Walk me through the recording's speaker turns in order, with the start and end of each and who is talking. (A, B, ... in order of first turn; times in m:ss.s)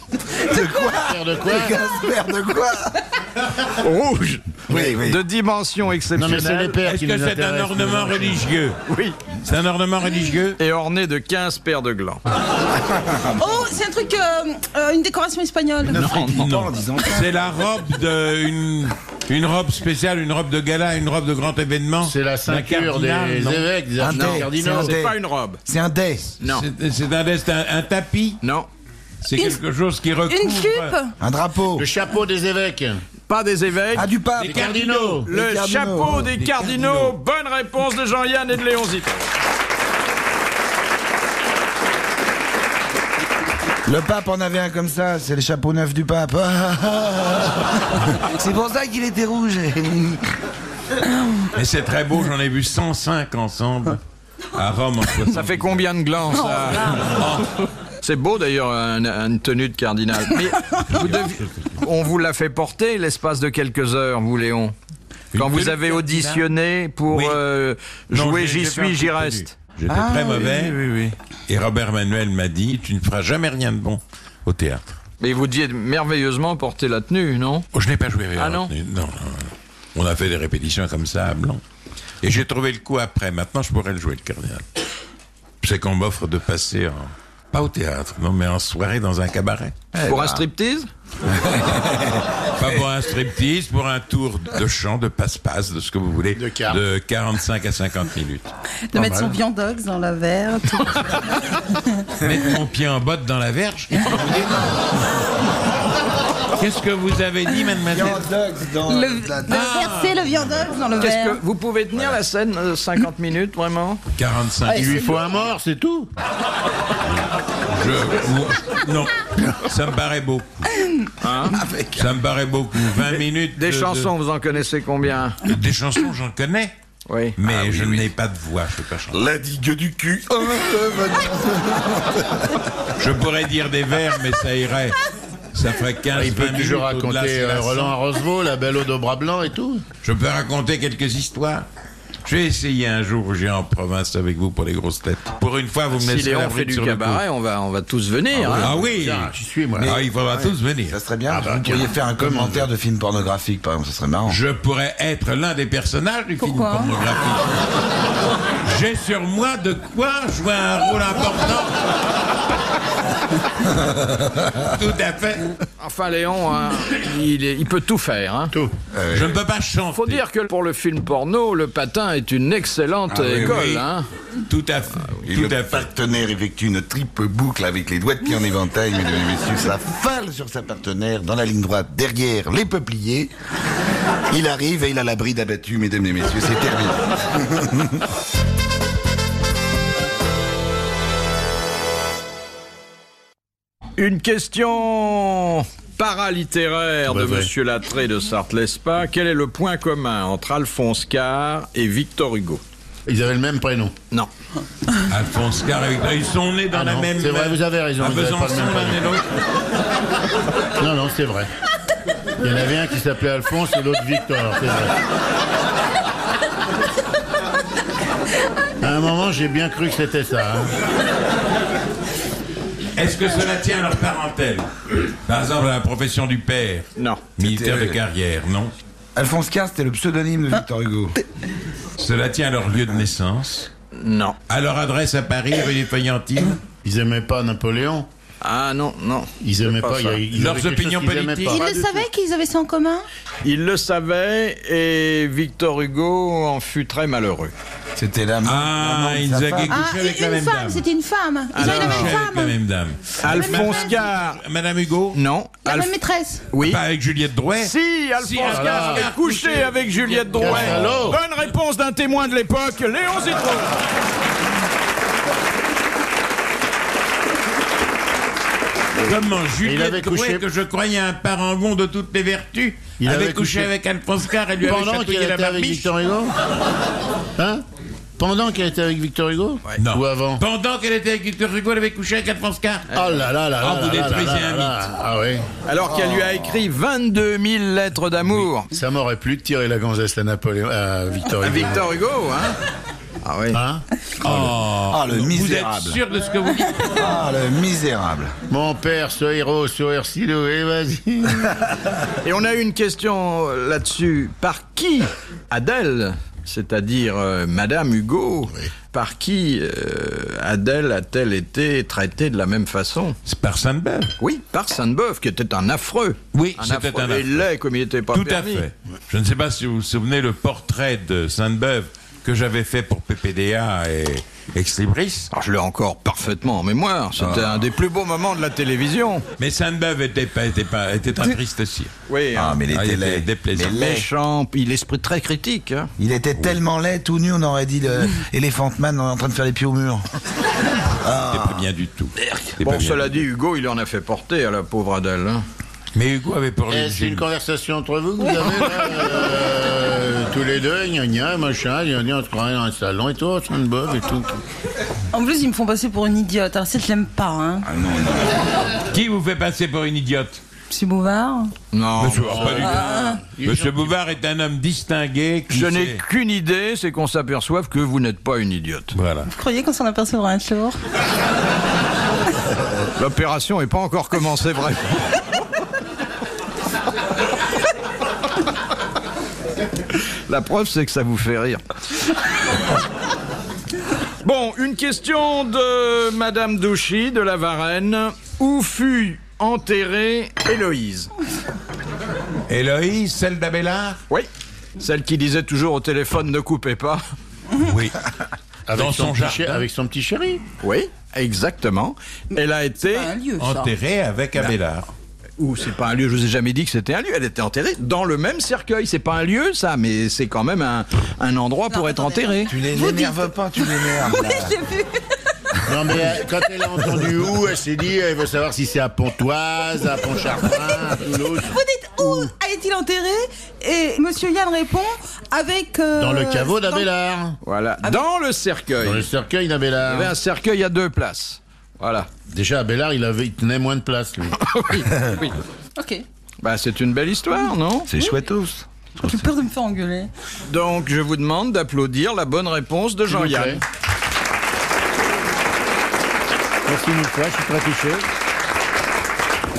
0:00.4-0:02.9 A
0:01.0-0:01.8 B
0:03.7-0:06.8 C
0:04.7-0:05.2 A
0:06.2-0:08.4 B
0:06.8-0:08.8 D
0:08.9-0:09.2 C
0:09.4-0:10.6 D
0:10.6-0:12.2 C
0:13.3-0:16.2 E
0:15.9-0:16.5 C
0:16.0-0:17.3 A
0:16.2-0:23.7 D
0:22.0-0:25.0 B
0:24.0-0:25.2 A
0:24.1-0:25.6 C
0:25.7-0:26.3 A
0:26.4-0:26.7 C
0:26.4-0:28.4 D
0:28.4-0:28.7 C
0:29.2-0:31.0 D
0:29.4-0:29.6 E
0:30.3-0:31.2 E
0:31.2-0:31.9 A
0:31.8-0:33.0 B
0:33.3-0:34.1 C
0:34.0-0:34.7 A
0:34.4-0:35.2 D
0:34.4-0:35.3 B
0:35.2-0:39.2 C
0:35.3-0:36.3 A
0:36.2-0:37.2 D
0:43.9-0:47.6 A
0:48.3-0:50.2 A
0:51.5-0:54.0 D
0:54.6-0:55.8 D
0:55.3-0:57.2 C
0:56.9-0:57.5 D
0:58.0-1:04.7 C
1:00.9-1:01.8 D
1:05.3-1:06.5 D
1:05.3-1:09.5 C
1:07.1-1:07.4 D
1:08.1-1:14.9 D
1:09.9-1:10.8 A
1:15.2-1:17.7 C
1:17.7-1:21.6 D
1:18.4-1:18.7 C
1:22.2-1:24.6 D
1:25.6-1:29.9 D
1:30.0-1:30.9 C
1:31.4-1:38.5 D
1:36.4-1:36.8 B
1:38.9-1:41.8 E
1:38.9-1:39.4 B
1:42.2-1:44.7 D
1:46.6-1:48.3 D
1:47.9-1:49.6 A
1:48.8-1:51.4 E
1:49.5-1:50.7 D
1:51.0-1:54.0 C
1:54.2-1:55.1 D
1:54.7-1:56.1 B
1:57.7-2:00.7 D
2:01.2-2:01.6 C
2:01.5-2:02.1 A
2:02.0-2:04.1 D
2:03.6-2:05.4 C
2:05.4-2:06.7 D
2:07.1-2:07.4 C
2:07.4-2:09.2 D
2:09.1-2:12.2 A
2:13.0-2:15.0 D
2:15.5-2:17.9 D
2:16.1-2:19.8 B
2:20.0-2:21.7 D
2:22.2-2:27.2 D
2:25.9-2:28.8 C
2:28.4-2:30.0 B
2:28.5-2:31.0 D
2:29.8-2:30.1 A
2:30.9-2:34.4 A
2:31.3-2:32.7 B
2:34.3-2:37.5 D
2:36.4-2:37.0 E
2:38.6-2:41.8 D
2:44.6-2:45.5 D
2:45.8-2:48.5 C
2:48.9-2:49.3 A
2:49.1-2:50.2 D
2:49.9-2:54.1 C
2:53.1-2:53.6 A
2:53.2-2:53.9 D
2:54.5-2:55.9 D
2:55.3-3:03.3 A
3:04.3-3:07.7 A
3:14.0-3:22.6 C
3:17.1-3:17.5 B
3:23.1-3:23.9 B
3:25.1-3:29.2 D
3:26.7-3:29.2 B
3:30.8-3:31.5 B
3:32.4-3:34.9 B
3:38.8-3:40.8 B
3:43.0-3:48.7 D
3:47.0-3:47.2 C
3:47.4-3:48.0 A
3:49.2-3:51.1 A
3:52.0-3:53.7 D
3:53.9-3:54.4 C
3:54.5-3:56.6 D
3:56.8-3:58.1 B
3:58.4-4:00.2 C
3:59.4-4:02.0 B
4:00.3-4:01.6 D
4:01.5-4:03.0 E
4:03.4-4:07.5 C
4:08.0-4:09.8 A
4:08.4-4:10.8 D
4:09.7-4:12.6 E
4:11.5-4:12.2 C
4:11.6-4:15.2 D
4:13.2-4:14.4 C
4:13.2-4:14.0 E
4:15.1-4:15.9 C
4:15.6-4:16.5 E
4:16.5-4:16.8 C
4:16.6-4:19.7 D
4:17.6-4:23.7 C
4:18.5-4:19.1 B
4:20.4-4:21.2 D
4:20.4-4:21.2 B
4:29.0-4:35.9 D
4:29.6-4:30.4 B
4:33.0-4:33.7 B
4:34.6-4:36.4 B
4:37.4-4:37.6 B
4:38.2-4:40.4 B
4:39.8-4:42.9 D
4:42.9-4:43.2 C
4:42.9-4:45.5 B
4:43.6-4:44.8 D
4:45.7-4:48.7 C
4:48.7-4:51.9 B
4:51.4-4:52.6 C
4:53.2-4:53.6 C
4:53.5-4:54.5 B
4:54.2-4:57.1 D
4:54.9-4:56.0 A
4:57.0-4:58.3 A
4:58.5-5:01.7 B
5:02.2-5:13.2 C
5:13.2-5:14.1 D
5:14.2-5:18.7 C
5:16.3-5:17.5 D
5:18.1-5:25.3 D
5:25.3-5:29.3 C
5:29.4-5:31.9 D
5:32.1-5:32.6 C
5:32.4-5:34.1 A
5:32.7-5:33.8 D
5:33.6-5:35.9 C
5:36.0-5:40.0 A
5:41.0-5:41.6 A
5:41.2-5:43.1 D
5:42.6-5:45.4 C
5:45.9-5:47.3 D
5:46.7-5:54.4 B
5:55.1-5:57.7 E
5:57.7-5:58.3 A
5:58.9-6:00.4 D
6:00.7-6:01.5 E
6:01.7-6:02.8 C
6:02.0-6:06.0 D
6:02.2-6:03.9 B
6:02.7-6:03.2 E
6:05.5-6:09.0 C
6:08.9-6:09.3 D
6:09.3-6:10.8 E
6:13.0-6:15.1 C
6:20.3-6:21.6 C
6:24.2-6:31.1 C
6:32.5-6:34.0 D
6:34.8-6:37.0 C
6:37.6-6:38.0 D
6:38.7-6:40.4 B
6:38.7-6:39.7 D
6:40.6-6:43.1 C
6:42.9-6:43.7 E
6:43.4-6:44.9 D
6:45.4-6:52.6 C
6:51.7-6:55.0 E
6:52.5-6:54.6 A
6:55.7-7:01.6 B
7:01.4-7:06.9 E
7:06.0-7:07.4 B
7:07.4-7:09.1 C
7:08.8-7:10.2 B
7:09.8-7:12.1 C
7:12.3-7:14.4 B
7:14.4-7:15.4 C
7:15.8-7:16.0 E
7:16.4-7:17.9 C
7:17.9-7:19.2 A
7:17.9-7:18.2 E
7:19.0-7:20.1 E
7:20.5-7:23.6 C
7:23.1-7:23.6 B
7:26.7-7:28.1 B